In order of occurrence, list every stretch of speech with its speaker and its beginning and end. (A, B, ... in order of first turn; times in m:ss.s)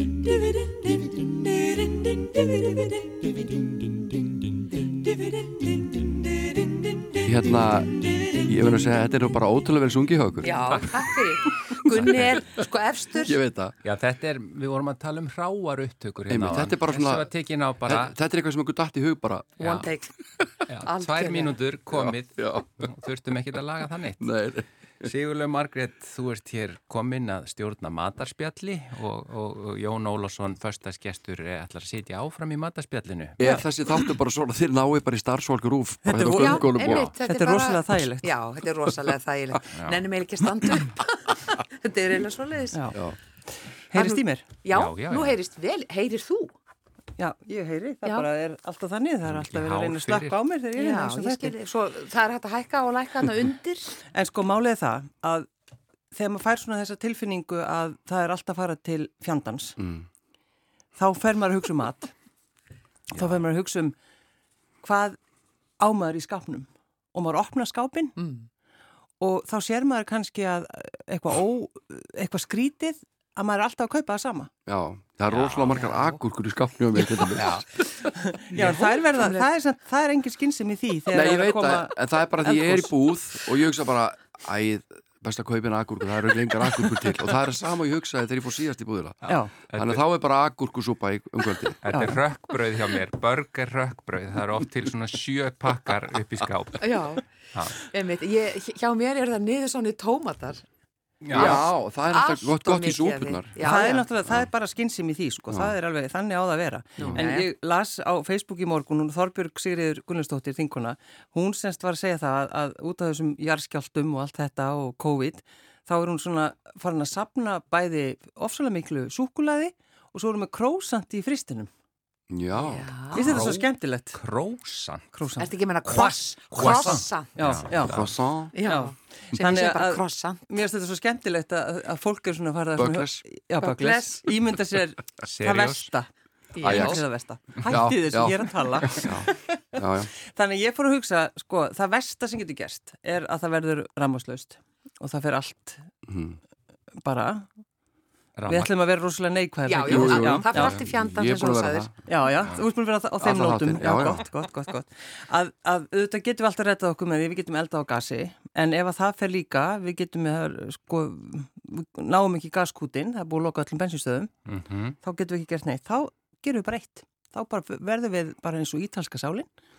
0:00.6-0:02.9 A
0:07.2-0:10.9 B
0:10.4-0:13.4 C
0:10.7-0:11.0 D
0:11.9-0:12.4 D
0:12.0-0:12.4 B
0:13.1-0:13.8 B
0:13.8-0:18.1 D
0:16.3-0:17.3 B
0:17.8-0:19.7 B
0:19.6-0:20.1 C
0:19.6-0:19.9 D
0:20.7-0:24.3 D
0:20.8-0:21.6 C
0:21.9-0:22.9 B
0:24.2-0:25.1 B
0:25.0-0:33.6 D
0:33.4-0:37.1 B
0:36.0-0:38.3 A
0:36.2-0:42.9 C
0:36.9-0:37.2 D
0:39.7-0:40.0 D
0:42.7-0:43.0 A
0:43.9-0:44.5 A
0:43.9-0:46.5 C
0:44.7-0:45.4 D
0:47.2-0:51.5 A
0:49.3-0:50.4 D
0:50.8-0:54.0 C
0:54.1-0:55.5 A
0:56.1-0:59.8 A
0:59.8-1:00.0 B
1:01.0-1:02.1 A
1:03.1-1:03.9 A
1:04.8-1:05.2 A
1:05.8-1:08.2 A
1:08.2-1:08.5 C
1:09.2-1:14.5 A
1:14.6-1:18.0 B
1:15.3-1:15.8 D
1:15.7-1:16.2 C
1:17.3-1:17.6 D
1:18.1-1:22.9 A
1:18.5-1:19.5 C
1:21.1-1:31.8 B
1:29.3-1:29.5 A
1:29.3-1:30.0 D
1:31.8-1:37.8 D
1:31.9-1:32.2 A
1:36.8-1:40.6 C
1:41.2-1:41.6 D
1:41.3-1:43.5 B
1:41.3-1:41.6 A
1:41.4-1:44.1 C
1:43.6-2:01.7 A
1:45.5-1:45.7 B
1:47.0-1:47.5 C
2:02.3-2:02.9 B
2:02.6-2:03.4 C
2:03.1-2:04.2 A
2:03.1-2:05.1 D
2:05.1-2:05.5 A
2:05.4-2:07.4 C
2:05.8-2:08.1 D
2:06.6-2:08.0 A
2:07.8-2:08.6 B
2:08.5-2:10.5 C
2:08.6-2:25.9 A
2:12.8-2:13.2 B
2:13.6-2:14.2 C
2:15.2-2:15.9 D
2:16.5-2:17.0 C
2:16.6-2:17.0 B
2:17.6-2:20.1 B
2:26.0-2:26.4 B
2:27.0-2:27.5 A
2:28.4-2:28.7 D
2:28.5-2:30.8 A
2:29.6-2:31.9 C
2:29.8-2:31.9 B
2:32.0-2:44.3 A
2:33.2-2:34.2 B
2:44.5-2:45.0 D
2:45.0-2:49.5 A